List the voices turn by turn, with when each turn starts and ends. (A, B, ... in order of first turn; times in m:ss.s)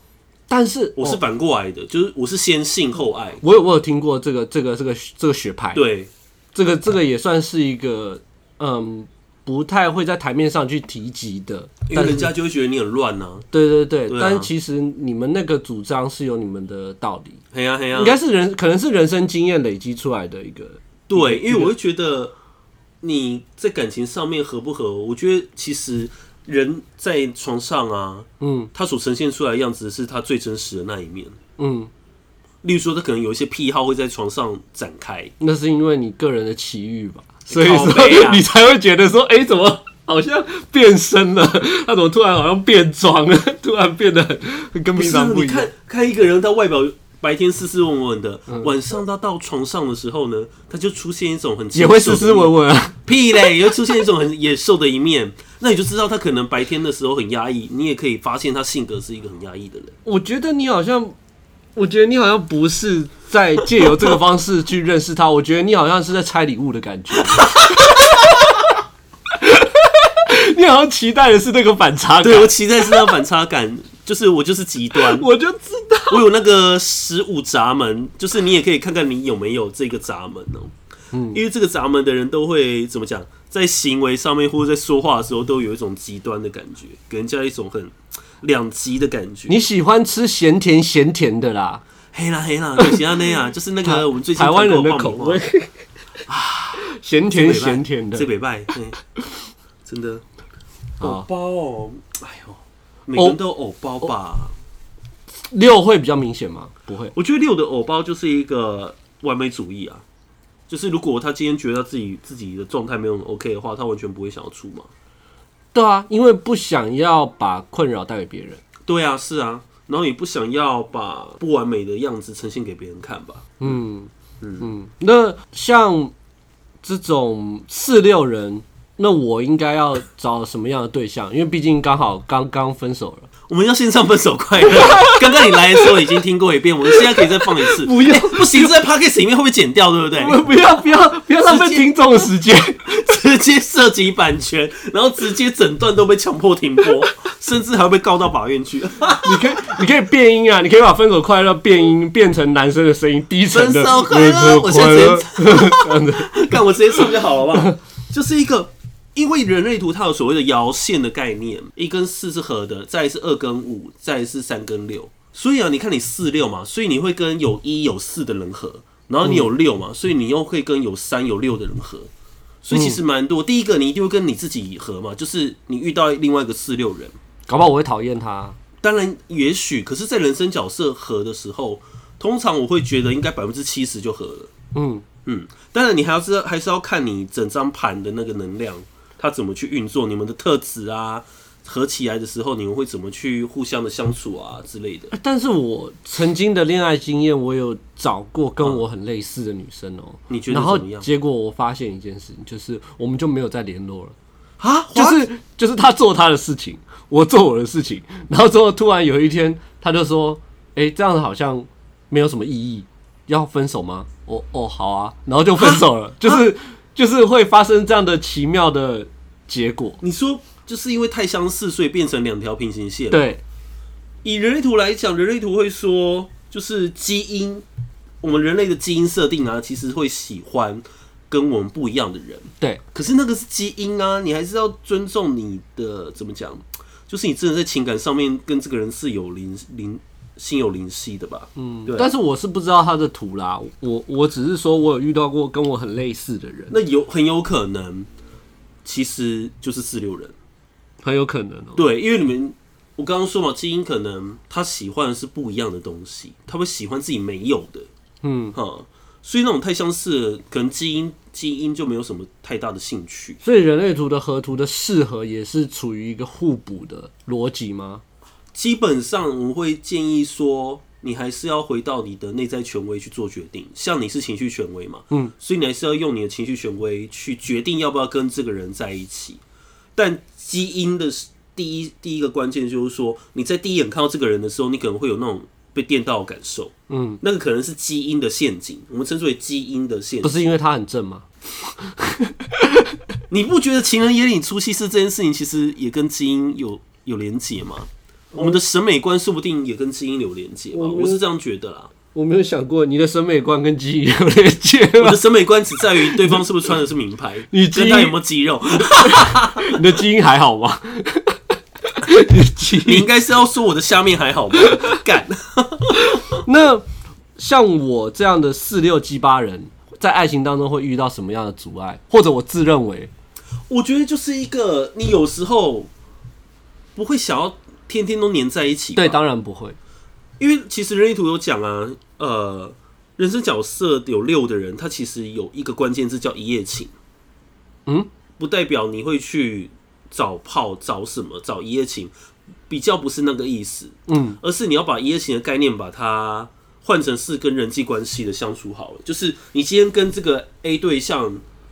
0:00.5-0:01.2 A
0:01.0-0:03.4 B
0:03.4-0:05.8 A
0:05.7-0:06.1 B
0:06.6-0:12.3 A
0:11.9-0:13.5 B
0:13.5-0:17.4 A
0:14.1-0:14.5 B
0:17.5-0:18.2 B
0:18.0-0:21.7 A
0:21.1-0:22.3 B
0:23.0-0:31.4 B
0:28.4-0:28.7 A
0:31.6-0:31.9 A
0:32.6-0:35.3 B
0:35.4-0:45.7 A
0:37.5-0:38.4 B
0:45.0-0:52.5 B
0:51.8-0:53.0 A
0:53.0-1:00.0 B
1:00.0-1:01.2 A
1:01.8-1:08.6 A
1:03.8-1:04.1 B
1:07.4-1:08.1 B
1:09.4-1:13.0 A
1:12.2-1:15.3 B
1:15.0-1:16.2 A
1:16.1-1:20.7 B
1:21.1-1:21.4 A
1:21.3-1:29.6 B
1:29.5-1:31.8 A
1:32.1-1:35.4 B
1:32.8-1:33.0 A
1:33.8-1:35.8 A
1:36.3-1:39.0 B
1:36.8-1:38.3 A
1:39.8-1:40.2 B
1:41.0-1:41.3 A
1:41.0-1:44.5 B
1:45.5-1:47.1 A
1:47.1-1:50.0 B
1:50.7-1:54.9 B
1:55.7-1:58.6 A
1:58.9-2:03.8 B
2:03.6-2:06.1 A
2:04.4-2:04.7 B
2:06.8-2:13.3 A
2:13.5-2:20.4 B
2:14.6-2:16.0 A
2:16.9-2:18.7 A
2:20.2-2:23.0 A
2:21.4-2:22.3 B
2:22.9-2:29.6 B
2:29.2-2:36.5 A
2:33.5-2:52.1 B
2:49.2-2:49.5 A
2:52.6-2:57.2 B
2:52.7-2:53.0 A
2:57.5-2:58.6 A
2:58.8-3:04.5 B
3:04.7-3:05.0 A
3:05.2-3:15.1 B
3:15.1-3:24.2 A
3:20.3-3:21.1 B
3:24.6-3:25.2 B
3:24.9-3:40.0 A
3:35.6-3:36.4 B
3:40.0-3:43.3 B
3:43.1-3:43.4 A
3:44.2-3:47.6 B
3:48.2-4:02.1 B
4:01.6-4:06.8 A
4:06.7-4:08.1 B
4:08.8-4:10.4 B
4:11.0-4:11.8 A
4:11.8-4:17.9 B
4:18.2-4:18.6 A
4:18.6-4:23.4 B
4:23.4-4:28.0 A
4:28.5-4:39.4 B
4:40.0-4:50.4 B
4:46.9-4:47.2 A
4:50.2-4:52.9 A
4:53.3-5:01.9 B
5:00.7-5:01.2 A
5:02.1-5:05.2 A
5:05.0-5:09.9 B
5:06.0-5:06.4 A
5:07.5-5:08.2 A
5:08.8-5:13.1 A
5:12.8-5:16.4 B
5:16.4-5:16.8 A
5:17.4-5:23.1 A
5:23.7-5:25.9 B
5:27.0-5:29.2 B
5:29.0-5:29.8 A
5:30.4-5:36.9 B
5:38.4-5:42.1 B
5:42.7-5:51.4 B
5:44.1-5:44.4 A